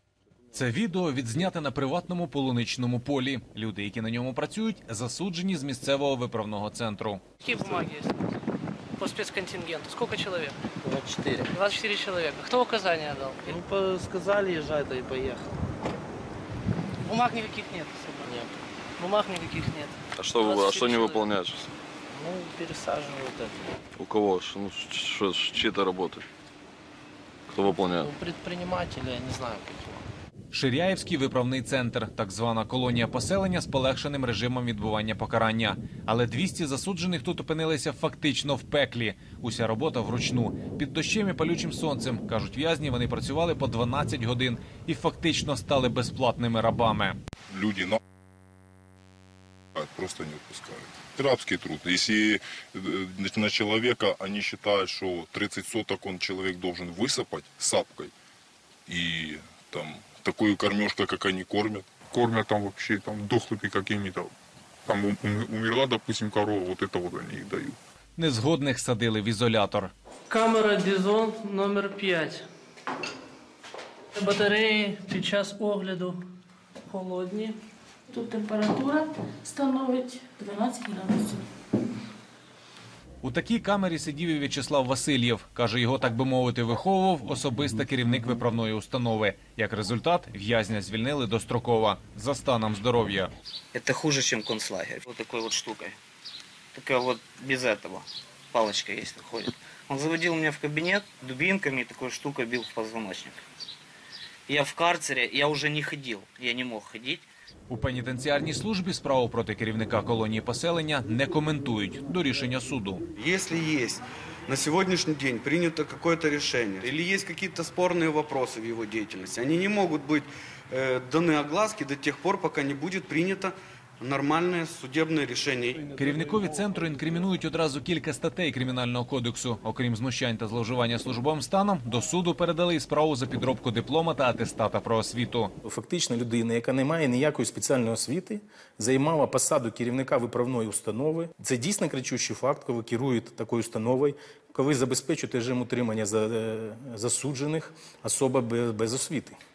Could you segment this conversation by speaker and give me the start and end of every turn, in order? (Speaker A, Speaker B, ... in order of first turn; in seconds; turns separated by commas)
Speaker A: 0.5-7.2, Speaker B: 7.4-8.3, Speaker B: 9.0-10.6, Speaker C: 10.8-11.4, Speaker B: 11.5-13.5, Speaker C: 13.4-15.5, Speaker B: 17.0-18.3, Speaker C: 18.2-18.5, Speaker B: 19.0-21.3, Speaker D: 20.1-21.7, Speaker C: 22.1-23.6, Speaker D: 23.9-26.2, Speaker D: 27.5-28.1, Speaker C: 28.1-30.1, Speaker A: 30.5-47.2, Speaker E: 47.5-48.0, Speaker E: 49.7-58.1, Speaker E: 58.9-61.9, Speaker F: 62.1-64.3, Speaker F: 64.9-67.8, Speaker A: 68.2-69.9, Speaker B: 70.3-72.4, Speaker B: 74.1-76.2, Speaker B: 76.9-77.5, Speaker G: 78.1-81.5, Speaker A: 83.2-93.3, Speaker H: 93.7-96.0, Speaker H: 96.7-103.4, Speaker H: 104.5-107.3, Speaker A: 107.7-113.0, Speaker I: 113.2-125.8, Speaker A: 125.9-135.5, Speaker J: 135.6-149.4